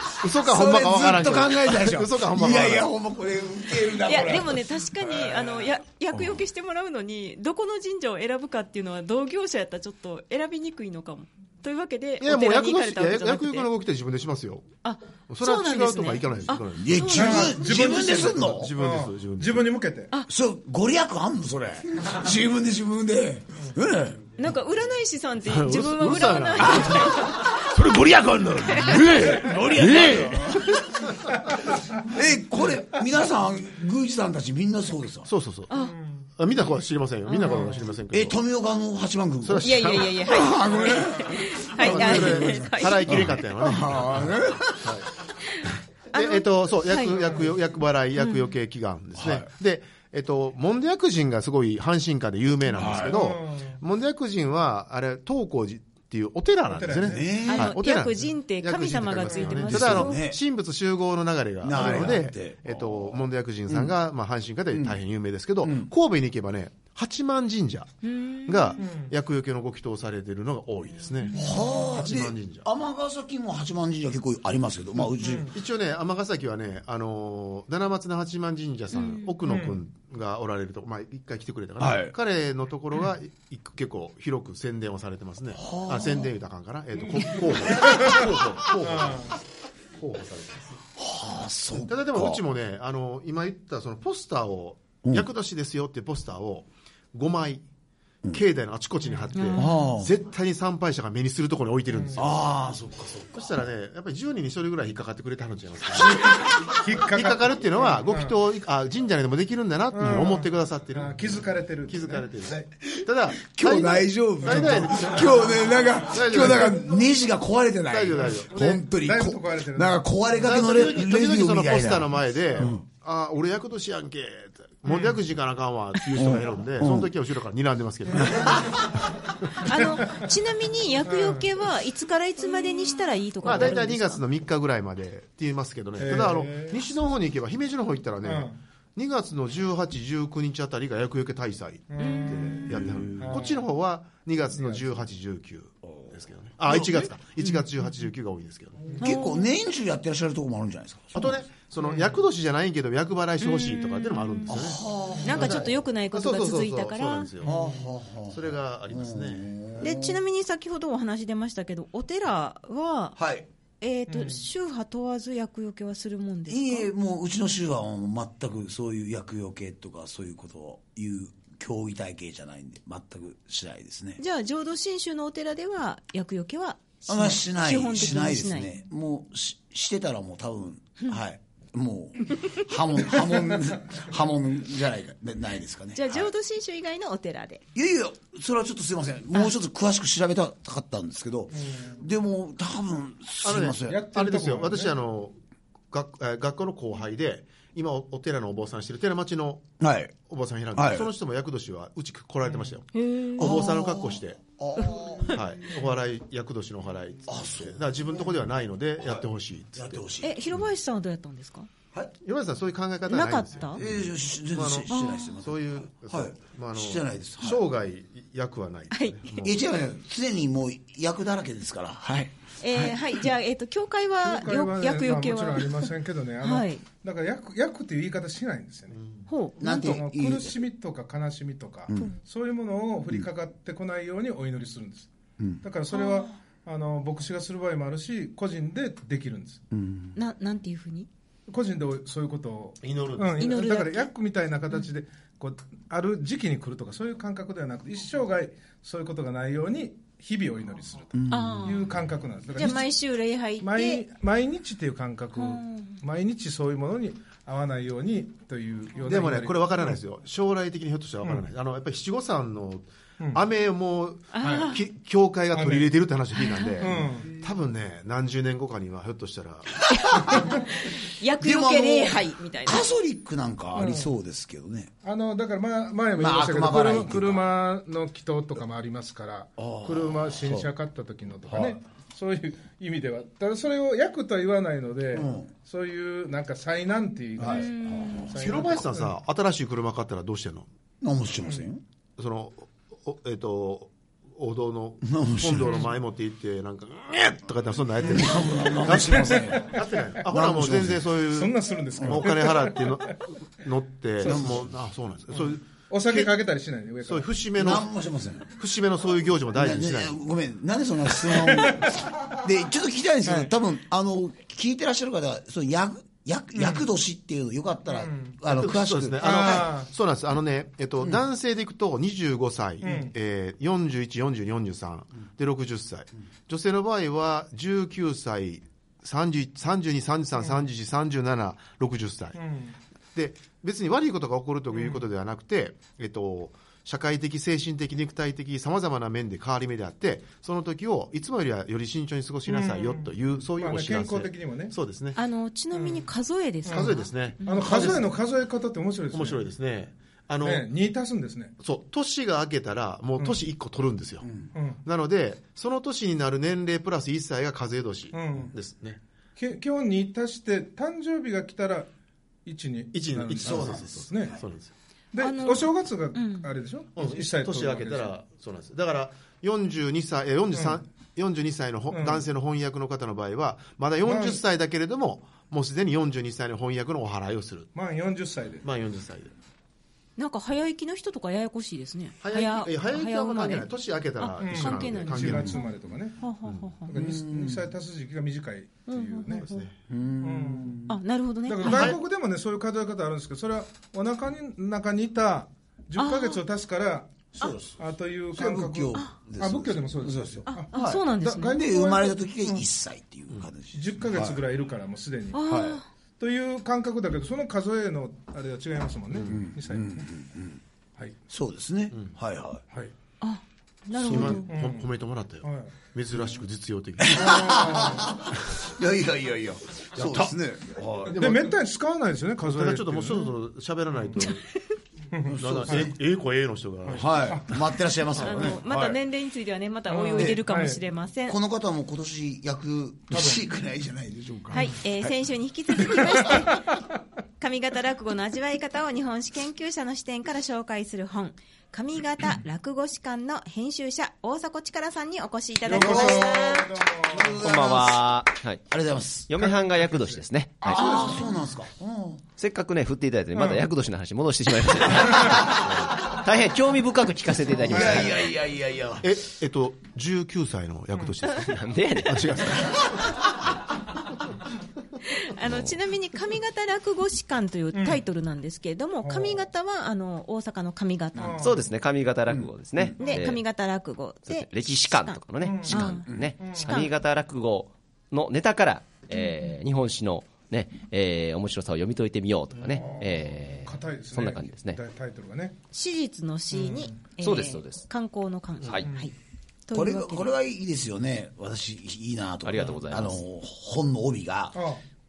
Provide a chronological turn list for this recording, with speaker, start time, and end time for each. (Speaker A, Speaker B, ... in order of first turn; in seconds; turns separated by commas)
Speaker A: 0.2-2.9, Speaker B: 0.4-5.0, Speaker C: 4.0-13.7, Speaker D: 4.1-4.4, Speaker D: 5.0-5.6, Speaker A: 12.2-14.7, Speaker C: 14.8-17.5, Speaker A: 15.3-17.2, Speaker B: 16.8-18.7, Speaker D: 17.1-20.1, Speaker A: 17.8-19.7, Speaker B: 20.3-24.2, Speaker C: 24.4-27.7, Speaker A: 25.5-30.5, Speaker B: 26.8-27.2, Speaker B: 28.6-30.8, Speaker C: 28.8-29.1, Speaker B: 32.0-35.3, Speaker A: 35.2-35.7, Speaker C: 35.7-36.0, Speaker D: 35.8-36.3, Speaker A: 36.4-38.4, Speaker C: 37.2-37.8, Speaker D: 37.4-37.7, Speaker B: 38.1-45.1, Speaker A: 39.4-40.4, Speaker C: 39.6-43.1, Speaker D: 40.8-41.1, Speaker A: 41.7-45.1, Speaker C: 46.1-47.3, Speaker A: 46.1-72.7, Speaker D: 47.2-47.5, Speaker C: 48.2-48.5, Speaker B: 49.1-49.5, Speaker B: 52.8-53.2, Speaker D: 52.8-53.8, Speaker D: 56.7-57.4, Speaker B: 57.0-57.7, Speaker C: 57.4-60.2, Speaker B: 59.6-60.4, Speaker B: 61.6-63.2, Speaker B: 63.7-63.9, Speaker B: 64.7-65.0, Speaker B: 65.6-65.9, Speaker C: 68.0-68.8, Speaker D: 68.8-69.1, Speaker C: 71.2-71.9, Speaker B: 71.3-75.5, Speaker D: 71.3-71.9, Speaker D: 75.2-75.6, Speaker A: 75.5-89.3, Speaker C: 78.9-79.3, Speaker D: 79.5-79.8, Speaker B: 81.8-82.1, Speaker B: 85.5-86.3, Speaker D: 87.0-88.2, Speaker D: 88.9-89.3, Speaker A: 90.0-90.8, Speaker B: 90.9-92.4, Speaker A: 91.7-97.6, Speaker A: 98.3-102.4, Speaker C: 99.3-99.7, Speaker B: 99.5-100.1, Speaker D: 101.9-102.2, Speaker B: 102.2-103.4, Speaker A: 103.3-116.8, Speaker D: 106.0-108.3, Speaker D: 109.9-112.7, Speaker B: 112.8-122.8, Speaker D: 114.4-115.3, Speaker A: 117.9-118.8, Speaker D: 118.4-120.0, Speaker A: 120.4-128.8, Speaker D: 124.9-125.2, Speaker B: 126.1-127.1, Speaker B: 128.2-128.8, Speaker C: 129.6-134.2, Speaker D: 129.8-130.2, Speaker D: 131.1-131.5, Speaker A: 133.4-148.9, Speaker D: 136.0-136.8, Speaker D: 138.2-138.6, Speaker D: 141.9-143.6, Speaker C: 142.0-142.5, Speaker B: 142.7-143.4, Speaker D: 144.5-144.9, Speaker B: 145.8-146.1, Speaker C: 149.0-149.5, Speaker B: 149.0-151.4, Speaker A: 151.1-154.8, Speaker D: 151.8-152.2, Speaker C: 153.4-154.6, Speaker B: 154.5-155.8, Speaker C: 155.2-157.3, Speaker A: 155.3-157.6, Speaker D: 157.4-157.8, Speaker B: 157.4-160.2, Speaker A: 158.3-159.9, Speaker C: 159.8-163.2, Speaker B: 163.2-163.4, Speaker C: 163.8-166.9, Speaker D: 164.1-164.4, Speaker B: 166.5-174.2, Speaker C: 174.2-178.8, Speaker B: 177.1-186.3, Speaker C: 185.9-187.6, Speaker B: 187.7-194.0, Speaker D: 191.5-192.0, Speaker A: 193.4-195.3, Speaker D: 193.8-194.9, Speaker A: 195.9-199.6, Speaker B: 199.8-200.1, Speaker A: 200.2-204.4, Speaker B: 200.7-201.1, Speaker C: 202.9-203.7, Speaker B: 203.3-205.4, Speaker C: 204.8-205.4, Speaker A: 205.3-210.1, Speaker B: 207.2-207.9, Speaker B: 209.0-210.4, Speaker C: 210.2-211.7, Speaker A: 212.2-214.0, Speaker C: 213.1-213.8, Speaker B: 213.7-217.6, Speaker A: 214.5-219.5, Speaker C: 214.9-215.3, Speaker C: 218.9-219.4, Speaker B: 219.4-223.0, Speaker C: 222.6-226.8, Speaker D: 224.2-229.0, Speaker A: 228.9-229.2, Speaker C: 229.3-230.0, Speaker B: 229.6-230.5, Speaker D: 229.6-235.1, Speaker D: 235.6-239.6, Speaker C: 235.9-236.3, Speaker B: 239.7-240.2, Speaker C: 240.1-241.1, Speaker D: 241.5-252.9, Speaker A: 242.8-243.5, Speaker C: 243.4-244.1, Speaker B: 251.1-251.8, Speaker C: 251.3-251.9, Speaker C: 252.6-254.0, Speaker D: 253.6-260.0, Speaker C: 255.3-256.0, Speaker A: 259.0-269.7, Speaker C: 264.3-264.8, Speaker D: 264.4-264.7, Speaker D: 265.5-265.9, Speaker C: 266.4-266.9, Speaker D: 266.8-267.3, Speaker B: 270.1-270.5, Speaker C: 270.1-272.9, Speaker B: 271.4-274.9, Speaker D: 273.7-274.1, Speaker D: 275.0-289.1, Speaker B: 276.1-277.4, Speaker B: 279.6-280.7, Speaker B: 281.5-281.8, Speaker B: 285.1-285.5, Speaker A: 287.4-287.7, Speaker C: 287.4-288.4, Speaker B: 287.4-288.3, Speaker A: 288.3-290.7, Speaker B: 291.0-291.8, Speaker A: 292.2-306.4, Speaker B: 295.0-295.9, Speaker B: 298.1-299.7, Speaker D: 298.9-300.0, Speaker B: 300.3-301.1, Speaker D: 301.3-303.2, Speaker D: 304.2-304.5, Speaker B: 304.2-304.7, Speaker D: 305.3-307.3, Speaker A: 307.0-307.9, Speaker B: 307.6-308.5, Speaker A: 308.4-310.2, Speaker B: 309.5-319.7, Speaker D: 311.2-311.9, Speaker D: 313.2-313.5, Speaker D: 316.6-316.9, Speaker D: 317.9-318.4, Speaker A: 318.4-332.4, Speaker D: 319.2-319.9, Speaker D: 322.8-323.1, Speaker D: 332.4-332.8, Speaker A: 333.1-345.2, Speaker D: 334.7-335.0, Speaker D: 342.5-344.8, Speaker C: 345.1-347.8, Speaker D: 345.7-346.1, Speaker D: 346.6-346.9, Speaker A: 346.7-348.1, Speaker D: 347.4-349.4, Speaker A: 349.1-350.7, Speaker D: 350.4-351.5, Speaker A: 351.6-354.2, Speaker B: 354.2-354.5, Speaker D: 354.5-354.8, Speaker A: 354.8-359.0, Speaker D: 358.1-358.5, Speaker D: 359.4-361.9, Speaker D: 362.4-364.4, Speaker A: 362.9-364.7, Speaker B: 363.4-364.4, Speaker D: 365.1-368.1, Speaker C: 365.2-366.5, Speaker A: 366.9-377.7, Speaker D: 370.5-370.8, Speaker D: 371.9-372.2, Speaker D: 374.0-374.4, Speaker D: 377.7-378.6, Speaker A: 378.6-379.3, Speaker C: 380.2-383.6, Speaker A: 382.2-385.6, Speaker C: 384.2-386.9, Speaker D: 384.4-386.2, Speaker D: 386.9-389.5, Speaker B: 386.9-387.6, Speaker C: 388.9-389.7, Speaker A: 389.4-389.7, Speaker B: 389.9-390.9, Speaker D: 390.2-390.8, Speaker C: 390.9-392.0, Speaker D: 391.4-402.6, Speaker A: 391.6-392.0, Speaker C: 396.0-396.4, Speaker B: 397.4-397.8, Speaker B: 398.3-404.4, Speaker C: 400.5-401.6, Speaker D: 403.7-405.4, Speaker C: 405.3-405.9, Speaker B: 405.4-405.8, Speaker D: 406.2-410.1, Speaker B: 409.2-410.6, Speaker B: 411.3-412.6, Speaker C: 413.2-414.5, Speaker A: 414.0-417.9, Speaker D: 414.2-414.9, Speaker D: 415.4-415.7, Speaker B: 417.0-421.2, Speaker D: 417.2-418.1, Speaker A: 419.9-420.3, Speaker A: 421.0-421.6, Speaker D: 421.1-423.3, Speaker A: 422.4-424.4, Speaker D: 425.1-425.9, Speaker B: 425.2-426.0, Speaker A: 425.4-427.3, Speaker D: 426.9-427.6, Speaker B: 426.9-429.0, Speaker C: 428.2-431.4, Speaker D: 429.9-430.8, Speaker B: 431.3-435.1, Speaker D: 433.1-433.4, Speaker C: 434.5-436.8, Speaker C: 437.4-446.8, Speaker D: 445.6-447.4, Speaker B: 445.6-449.3, Speaker E: 447.4-448.6, Speaker E: 449.3-450.9, Speaker D: 449.4-451.4, Speaker B: 450.6-452.2, Speaker E: 452.4-458.2, Speaker D: 453.3-453.6, Speaker B: 457.6-459.1, Speaker D: 457.7-458.1, Speaker A: 459.0-463.2, Speaker E: 461.3-462.7, Speaker C: 465.1-471.4, Speaker D: 467.7-468.0, Speaker D: 469.0-469.4, Speaker D: 471.1-471.6, Speaker E: 471.2-473.4, Speaker B: 472.3-472.9, Speaker C: 473.0-476.9, Speaker D: 473.0-473.2, Speaker E: 474.3-484.8, Speaker D: 475.4-476.7, Speaker B: 476.1-476.3, Speaker D: 482.6-485.6, Speaker C: 485.7-489.1, Speaker D: 486.5-487.0, Speaker E: 487.2-487.9, Speaker C: 489.7-490.3, Speaker B: 489.7-494.6, Speaker E: 492.4-493.2, Speaker D: 494.5-494.8